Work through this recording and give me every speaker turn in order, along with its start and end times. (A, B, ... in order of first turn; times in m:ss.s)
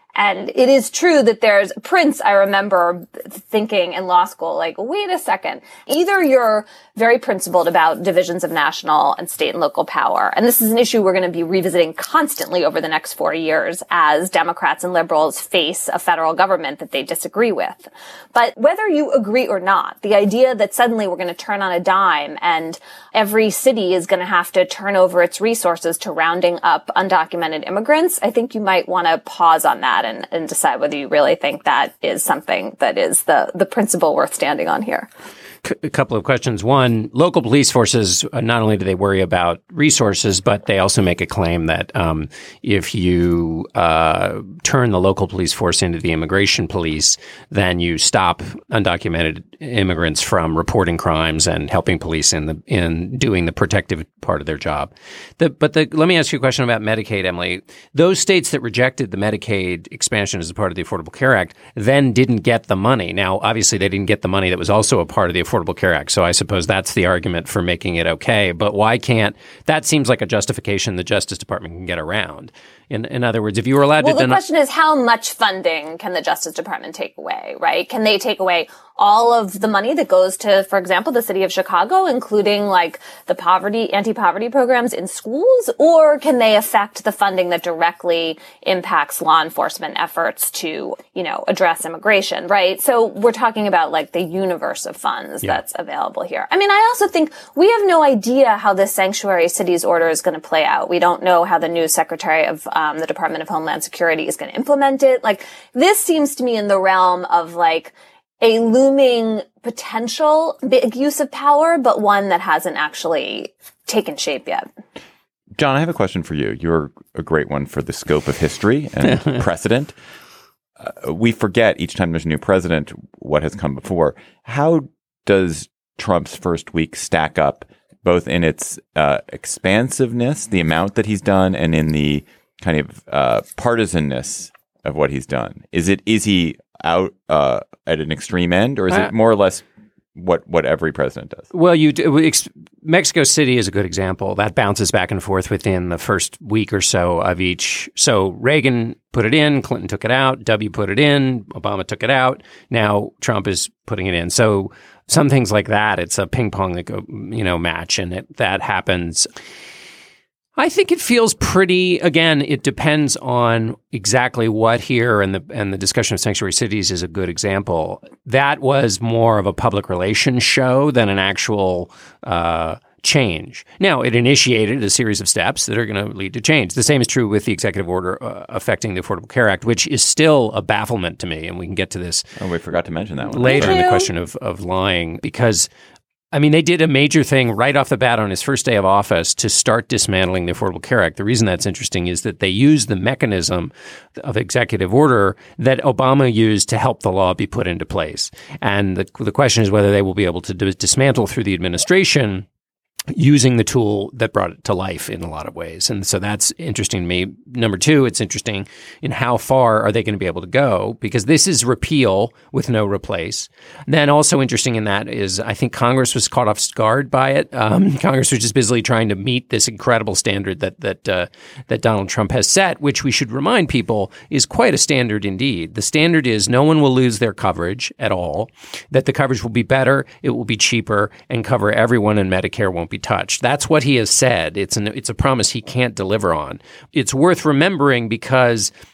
0:00.2-0:35.1 A
0:35.6-1:14.4 B
1:14.0-1:54.7 A
1:55.6-2:00.0 C
1:59.1-1:59.4 B
2:00.8-2:21.5 C
2:21.5-2:39.3 B
2:40.6-3:02.3 B
3:02.4-3:03.9 C
3:03.3-3:05.7 B
3:03.5-3:04.1 A
3:06.3-3:22.5 B
3:23.1-3:58.7 B